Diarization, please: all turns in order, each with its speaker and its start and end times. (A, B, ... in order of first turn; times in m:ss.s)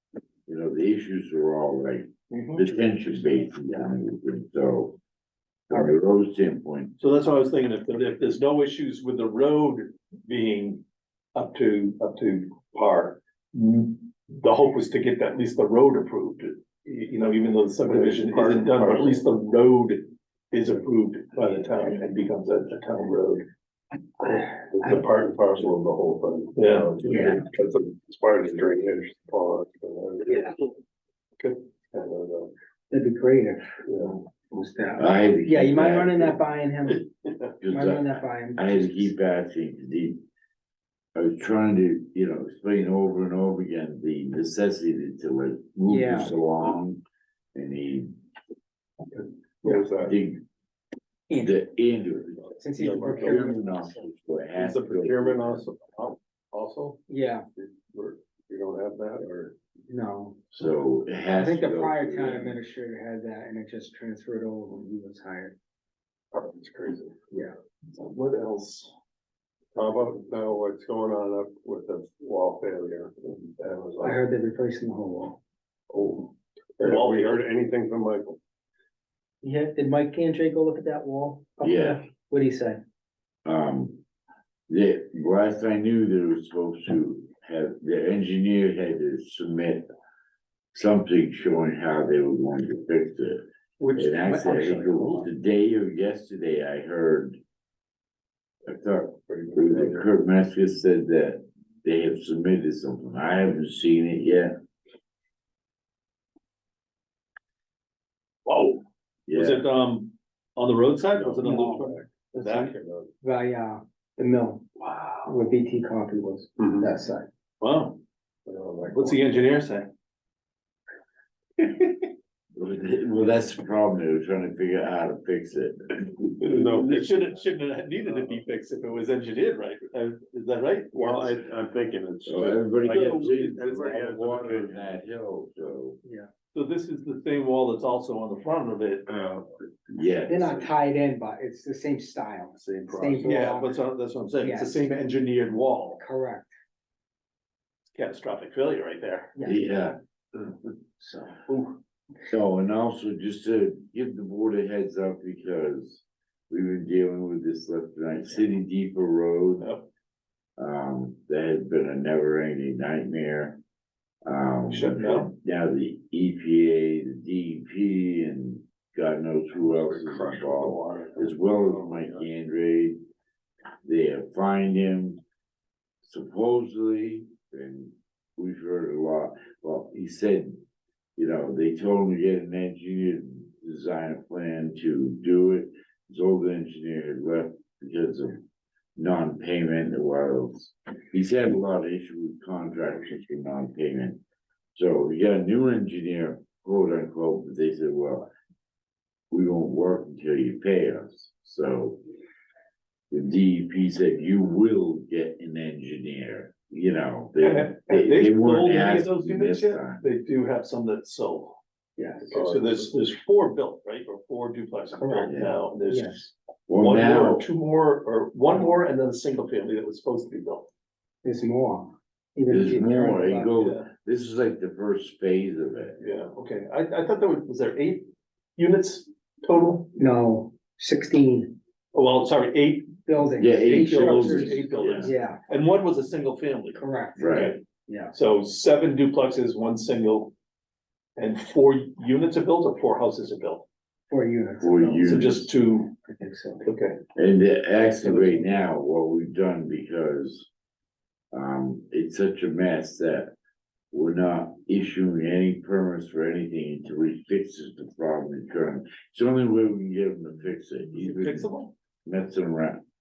0:00.5-0:05.0 A
0:05.7-0:07.0 A
0:07.0-0:10.8 B
0:11.3-0:23.5 B
0:17.9-0:19.2 C
0:24.2-0:30.6 C
0:26.6-0:26.9 B
0:27.0-0:27.4 D
0:31.9-0:32.5 C
0:32.9-0:33.6 D
0:33.8-0:34.2 C
0:34.5-0:37.1 D
0:35.0-0:36.4 A
0:37.6-0:40.2 A
0:37.6-0:39.1 D
0:41.2-0:47.0 A
0:45.9-0:46.3 D
0:47.5-0:48.2 A
0:49.2-0:50.1 C
0:50.0-0:50.4 A
0:51.3-0:55.7 A
0:52.6-0:54.0 D
0:52.8-0:53.5 C
0:54.6-0:57.0 C
0:57.1-0:57.4 D
0:57.6-0:59.5 C
0:59.9-1:00.4 D
1:00.5-1:02.6 A
1:01.4-1:05.5 D
1:06.3-1:07.2 C
1:07.9-1:08.9 B
1:09.7-1:14.2 C
1:14.0-1:15.4 D
1:15.9-1:18.4 C
1:16.8-1:17.4 B
1:19.4-1:22.8 D
1:21.6-1:22.0 A
1:23.4-1:24.0 A
1:24.7-1:29.9 A
1:30.7-1:37.4 A
1:33.8-1:35.3 D
1:38.6-1:44.5 A
1:39.3-1:40.1 C
1:48.4-1:48.8 B
1:49.3-1:49.6 A
1:49.3-1:52.7 B
1:51.1-1:53.1 C
1:51.4-1:51.8 D
1:53.2-1:57.3 D
1:56.6-1:56.9 C
1:57.6-1:58.0 B
1:58.4-1:59.2 C
1:58.9-1:59.9 B
2:02.6-2:06.3 A
2:06.4-2:11.4 B
2:06.4-2:07.3 C
2:10.9-2:14.9 C
2:12.2-2:16.0 A
2:12.8-2:13.8 B
2:16.0-2:16.3 D
2:16.5-2:19.0 B
2:19.1-2:19.5 C
2:19.9-2:20.7 A
2:20.3-2:23.8 D
2:22.5-2:23.3 C
2:23.2-2:26.0 B
2:24.4-2:24.8 D
2:26.0-2:26.5 D
2:27.9-2:29.3 B
2:29.4-2:30.0 A
2:31.0-2:31.4 D
2:32.3-2:39.7 A
2:39.6-2:39.8 B
2:40.6-2:43.6 A
2:44.2-2:53.0 A
2:44.7-2:45.3 B
2:49.6-2:52.3 C
2:53.8-2:55.2 A
2:56.0-3:00.6 A
3:01.2-3:08.4 A
3:09.0-3:14.2 A
3:14.7-3:18.3 A
3:19.3-3:22.0 A
3:23.1-3:30.0 A
3:27.4-3:31.6 B
3:32.0-3:32.3 D
3:32.3-3:32.9 C
3:32.3-3:40.7 B
3:35.0-3:35.3 D
3:35.3-3:35.6 A
3:35.9-3:36.3 D
3:36.7-3:37.4 A
3:41.2-3:43.5 D
3:42.5-3:46.1 A
3:43.6-3:43.9 B
3:46.0-3:49.9 B
3:49.9-3:51.6 D
3:51.9-3:53.0 B
3:53.1-3:55.4 D
3:53.4-3:55.1 A
3:53.6-3:57.6 B
3:56.7-3:58.1 D
3:57.2-3:57.6 A
3:58.1-4:00.3 B
4:01.2-4:03.6 B
4:04.1-4:05.1 D
4:04.6-4:05.5 A
4:05.0-4:05.9 B
4:06.0-4:06.7 D
4:06.6-4:07.0 B
4:07.1-4:10.5 A
4:08.0-4:08.3 B
4:11.3-4:13.3 A
4:13.9-4:21.5 A
4:21.0-4:21.7 B
4:22.0-4:22.8 A